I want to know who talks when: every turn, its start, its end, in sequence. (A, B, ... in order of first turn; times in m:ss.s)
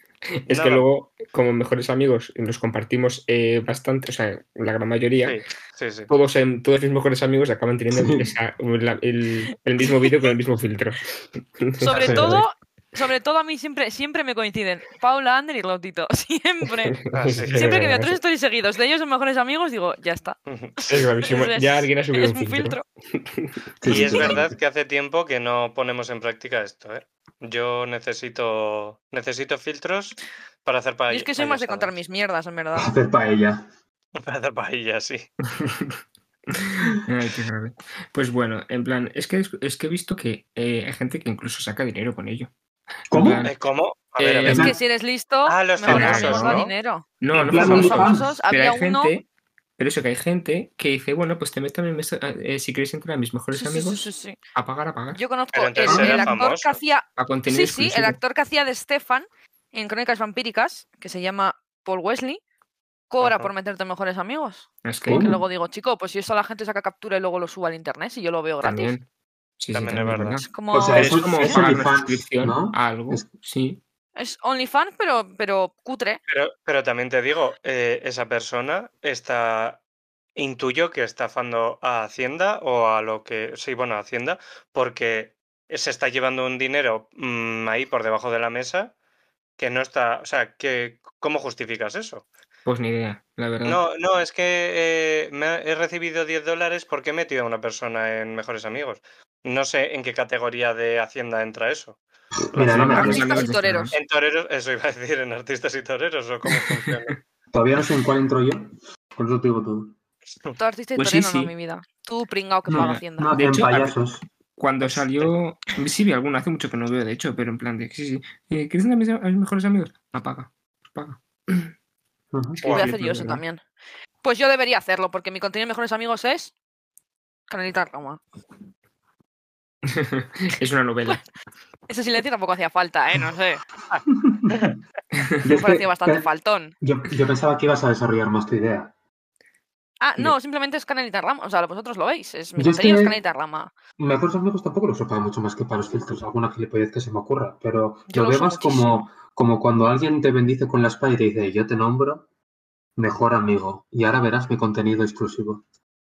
0:00.4-0:05.4 A
0:00.5-0:00.8 B
0:05.2-0:06.1 B
0:06.1-0:12.4 A
0:07.9-0:08.3 C
0:11.8-0:16.9 D
0:11.9-0:12.2 B
0:16.7-0:18.2 A
0:17.1-0:17.7 B
0:17.5-0:22.8 D
0:20.5-0:20.8 B
0:20.9-0:24.3 A
0:23.8-0:24.6 C
0:23.8-0:32.0 B
0:31.1-0:32.9 D
0:32.8-0:33.6 C
0:34.2-0:35.3 B
0:35.6-0:42.5 A
0:43.1-0:43.5 C
0:43.1-0:43.5 A
0:43.4-0:44.7 B
0:44.2-0:44.7 A
0:44.4-0:44.8 C
0:44.5-0:49.1 D
0:45.5-0:46.7 B
0:45.9-0:46.6 A
0:47.2-0:49.2 A
0:47.3-0:48.4 C
0:49.8-0:55.2 A
0:53.5-0:54.4 D
0:55.1-1:02.4 D
0:55.5-0:56.8 B
0:55.9-0:56.4 C
0:57.2-0:58.2 A
1:03.1-1:08.9 D
1:03.2-1:03.5 B
1:04.8-1:05.4 A
1:05.1-1:05.4 C
1:08.6-1:09.1 A
1:09.6-1:13.8 A
1:09.7-1:10.4 B
1:10.5-1:11.6 D
1:10.7-1:13.2 C
1:14.2-1:16.2 D
1:16.3-1:19.8 B
1:20.4-1:28.9 B
1:29.6-1:32.3 B
1:32.6-1:33.8 A
1:33.6-1:42.0 B
1:42.5-1:43.4 C
1:42.5-1:44.0 A
1:42.9-1:44.0 D
1:43.9-1:47.2 B
1:46.5-1:46.9 A
1:47.5-1:50.0 C
1:50.6-1:53.4 D
1:51.0-1:51.5 A
1:52.7-1:54.2 C
1:52.8-1:54.0 A
1:54.6-2:01.7 A
1:54.8-1:55.3 B
2:02.3-2:02.6 C
2:02.6-2:03.4 A
2:02.6-2:02.9 B
2:02.7-2:03.6 D
2:04.2-2:06.5 D
2:07.5-2:08.2 D
2:09.9-2:11.2 A
2:11.9-2:13.6 D
2:13.9-2:14.8 C
2:15.4-2:16.3 C
2:15.4-2:16.8 D
2:16.8-2:18.9 C
2:20.0-2:23.7 D
2:22.6-2:23.2 C
2:24.0-2:32.2 C
2:28.1-2:29.0 D
2:33.0-2:35.6 C